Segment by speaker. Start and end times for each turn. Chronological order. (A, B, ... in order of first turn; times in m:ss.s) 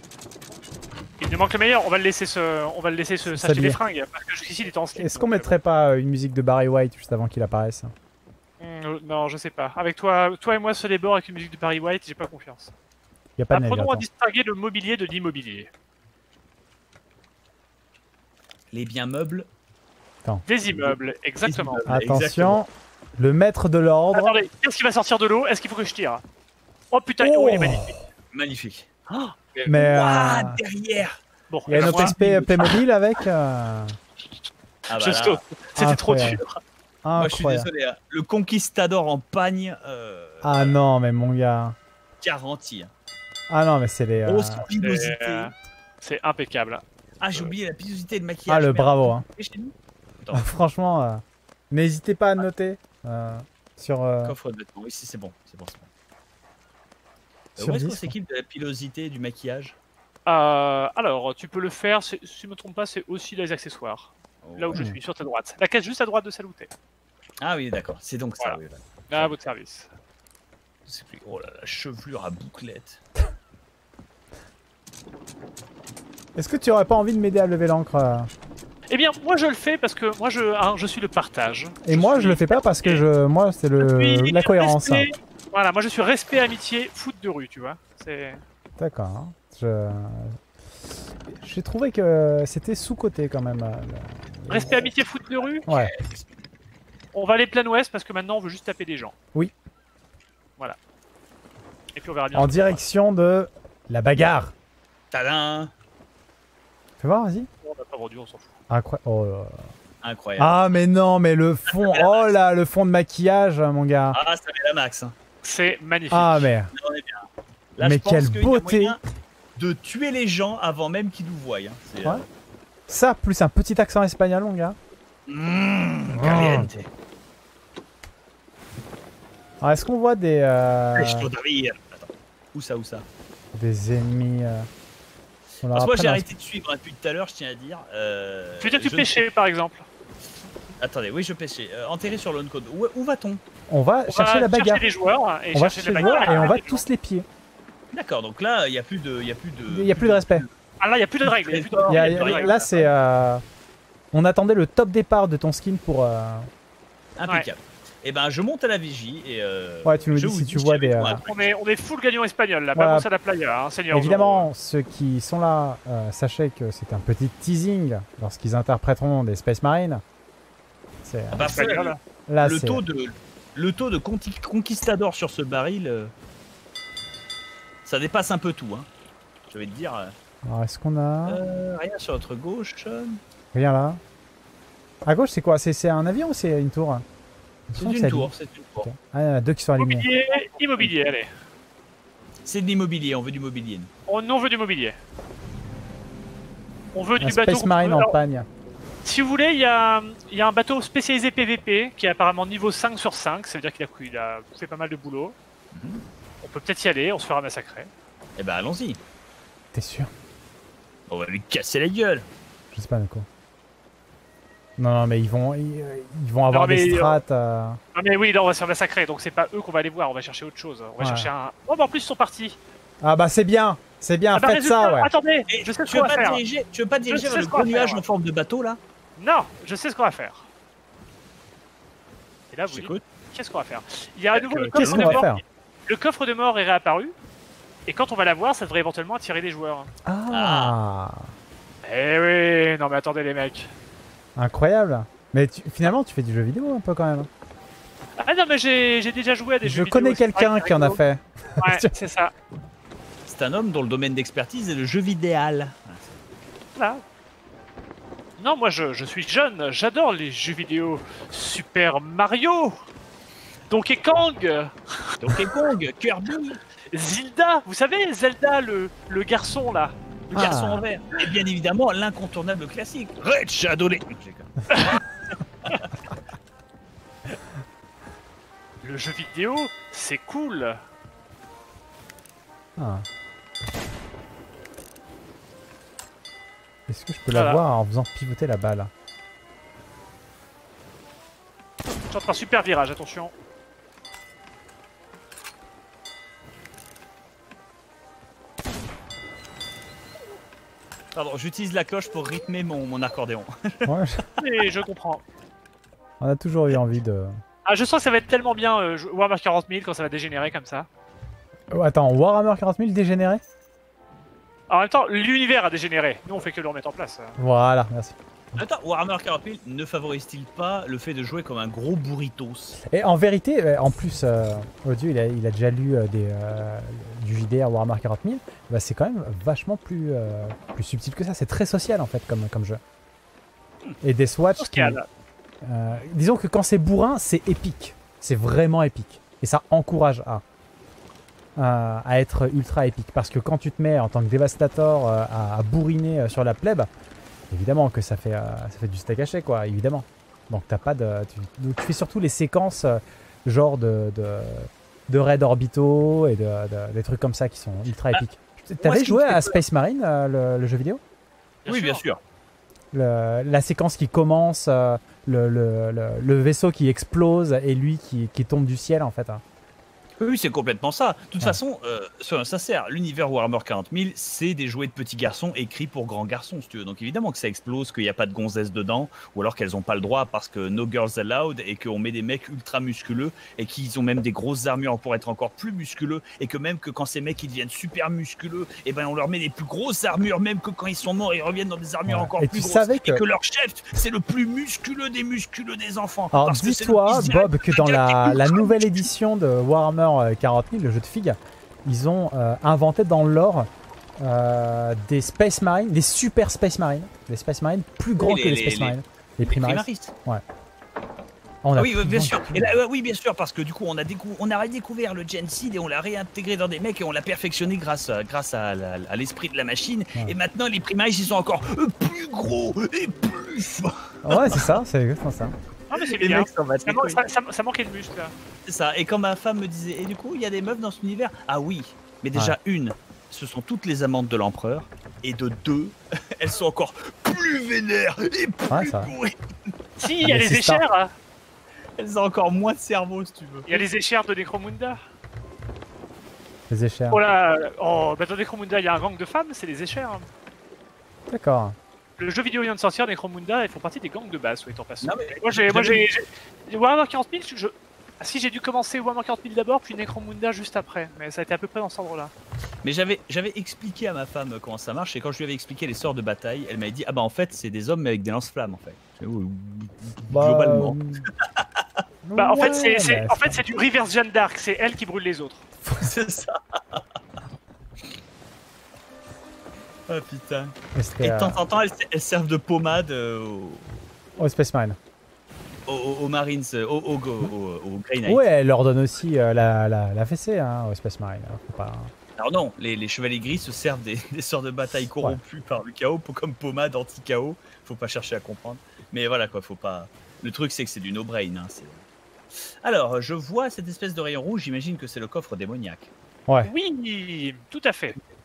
0:01.2-0:05.6 A
0:03.3-0:03.8 B
0:05.0-0:07.9 B
0:08.6-0:12.7 A
0:13.4-0:14.1 B
0:13.5-0:15.7 A
0:18.7-0:19.5 C
0:20.5-0:21.8 A
0:21.4-0:22.6 C
0:21.9-0:24.4 B
0:24.1-0:26.2 A
0:26.9-0:28.0 A
0:27.2-0:28.0 B
0:28.3-0:28.9 C
0:29.1-0:29.4 A
0:29.6-0:31.2 C
0:29.6-0:30.6 B
0:31.5-0:32.2 A
0:31.7-0:34.0 B
0:31.7-0:32.8 C
0:34.9-0:36.6 A
0:34.9-0:35.4 C
0:35.8-0:36.4 B
0:37.0-0:37.7 B
0:37.2-0:40.8 C
0:40.4-0:41.8 B
0:42.2-0:42.9 C
0:43.5-0:44.6 B
0:44.3-0:45.5 C
0:44.8-0:46.8 A
0:47.2-0:50.5 C
0:48.5-0:49.2 B
0:50.3-0:54.4 B
0:54.2-0:55.9 C
0:57.6-0:58.1 B
0:57.6-0:59.8 C
1:00.3-1:06.7 A
1:04.4-1:04.9 C
1:07.4-1:09.4 C
1:08.4-1:09.9 A
1:10.9-1:13.0 C
1:16.4-1:18.3 B
1:18.9-1:23.1 A
1:21.8-1:25.1 B
1:23.8-1:28.4 A
1:28.8-1:30.4 B
1:31.3-1:34.9 B
1:34.5-1:35.7 A
1:35.6-1:36.3 C
1:35.7-1:35.9 B
1:37.1-1:39.1 A
1:42.0-1:42.8 A
1:42.3-1:44.5 B
1:45.1-1:45.7 C
1:47.0-1:47.5 B
1:47.6-1:48.5 A
1:48.7-1:49.6 B
1:50.0-1:50.6 C
1:50.4-1:54.2 B
1:51.7-1:52.3 C
1:54.1-1:55.2 C
1:55.4-1:56.5 A
1:56.1-1:56.7 B
1:56.7-1:59.0 C
1:57.8-1:59.0 B
1:59.6-2:02.3 C
2:02.9-2:04.8 B
2:05.3-2:06.9 C
2:06.1-2:06.7 B
2:09.6-2:11.3 B
2:11.0-2:13.1 C
2:13.5-2:14.7 B
2:15.6-2:16.3 B
2:15.7-2:19.2 C
2:18.6-2:19.9 A
2:20.8-2:23.4 C
2:23.7-2:24.9 B
2:24.1-2:26.8 A
2:25.5-2:27.3 B
2:27.9-2:30.5 C
2:29.7-2:30.4 B
2:30.8-2:32.6 A
2:31.3-2:32.9 C
2:31.9-2:33.4 B
2:34.1-2:36.5 B
2:37.2-2:41.5 C
2:39.8-2:41.2 B
2:41.0-2:44.5 A
2:42.8-2:43.1 B
2:43.9-2:50.0 B
2:51.0-2:51.5 B
2:51.3-2:56.1 C
2:51.4-2:52.0 A
2:52.3-2:52.8 B
2:57.8-2:58.9 C
2:59.5-3:00.2 C
3:00.4-3:01.4 B
3:01.3-3:03.2 C
3:03.5-3:04.0 B
3:05.0-3:07.0 B
3:07.7-3:08.3 B
3:07.8-3:08.9 C
3:08.8-3:10.1 B
3:09.8-3:11.3 A
3:12.4-3:13.9 C
3:14.1-3:15.0 A
3:16.9-3:18.2 A
3:17.2-3:18.5 B
3:19.0-3:25.4 A
3:25.7-3:26.0 C
3:26.4-3:27.9 A
3:28.4-3:29.0 C
3:29.7-3:30.1 B
3:31.1-3:32.3 C
3:32.7-3:33.3 B
3:34.8-3:37.8 B
3:36.5-3:37.2 A
3:38.0-3:42.6 A
3:41.0-3:41.3 B
3:43.0-3:45.1 B
3:44.4-3:46.4 A
3:45.5-3:48.8 C
3:47.1-3:48.0 A
3:49.2-3:50.5 A
3:52.5-3:57.1 A
3:52.7-3:53.0 C
3:54.3-3:55.2 C
3:54.8-3:55.4 B
3:57.9-3:59.9 A
4:00.0-4:01.3 B
4:00.3-4:00.8 C
4:01.8-4:03.7 A
4:04.4-4:07.3 B
4:08.2-4:11.0 A
4:09.6-4:11.9 B
4:11.6-4:12.3 A
4:13.3-4:16.2 C
4:16.8-4:17.0 A
4:18.4-4:22.8 A
4:23.7-4:25.1 A
4:25.2-4:26.6 C
4:26.9-4:30.0 A
4:30.3-4:35.0 C
4:30.3-4:30.8 B
4:34.7-4:35.0 A
4:38.8-4:40.8 A
4:42.8-4:43.1 B
4:46.9-4:48.9 B
4:47.3-4:47.6 A
4:52.1-4:53.3 A
5:01.2-5:03.9 C
5:03.9-5:04.2 B
5:04.4-5:05.2 A
5:06.2-5:07.4 B
5:07.6-5:10.9 A
5:11.7-5:13.4 B
5:14.7-5:17.4 A
5:17.4-5:18.2 B
5:18.6-5:22.8 C
5:22.9-5:32.8 B
5:34.0-5:35.0 B
5:34.6-5:35.1 A
5:35.6-5:40.4 B
5:41.6-5:46.9 B
5:47.5-6:01.0 B
5:58.8-5:59.6 C
6:01.6-6:02.0 A
6:01.7-6:02.2 C
6:02.9-6:09.4 B
6:10.2-6:39.1 C
6:32.1-6:33.2 B
6:36.3-6:43.7 B
6:44.2-6:50.4 B
6:48.2-6:50.1 C
6:51.6-6:52.7 B
6:51.8-7:04.8 C
7:04.2-7:05.6 B
7:05.9-7:08.3 A
7:06.0-7:07.2 C
7:08.7-7:19.4 C
7:18.7-7:19.1 B
7:20.0-7:21.1 A
7:20.2-7:20.8 B
7:22.0-7:23.8 C
7:23.7-7:25.0 A
7:26.7-7:27.2 B
7:27.1-7:30.3 A
7:31.3-7:31.8 B
7:32.2-7:42.3 A
7:35.0-7:36.1 C
7:42.8-7:51.8 C
7:50.3-7:51.3 B
7:52.2-7:53.6 B
7:52.4-7:55.6 A
7:55.8-7:56.1 B
7:56.0-7:57.0 C
8:00.1-8:03.9 C
8:01.0-8:01.6 B
8:04.4-8:05.0 B
8:05.9-8:08.4 C
8:08.3-8:12.1 B
8:12.4-8:22.0 C
8:22.8-8:26.1 C
8:26.6-8:28.2 A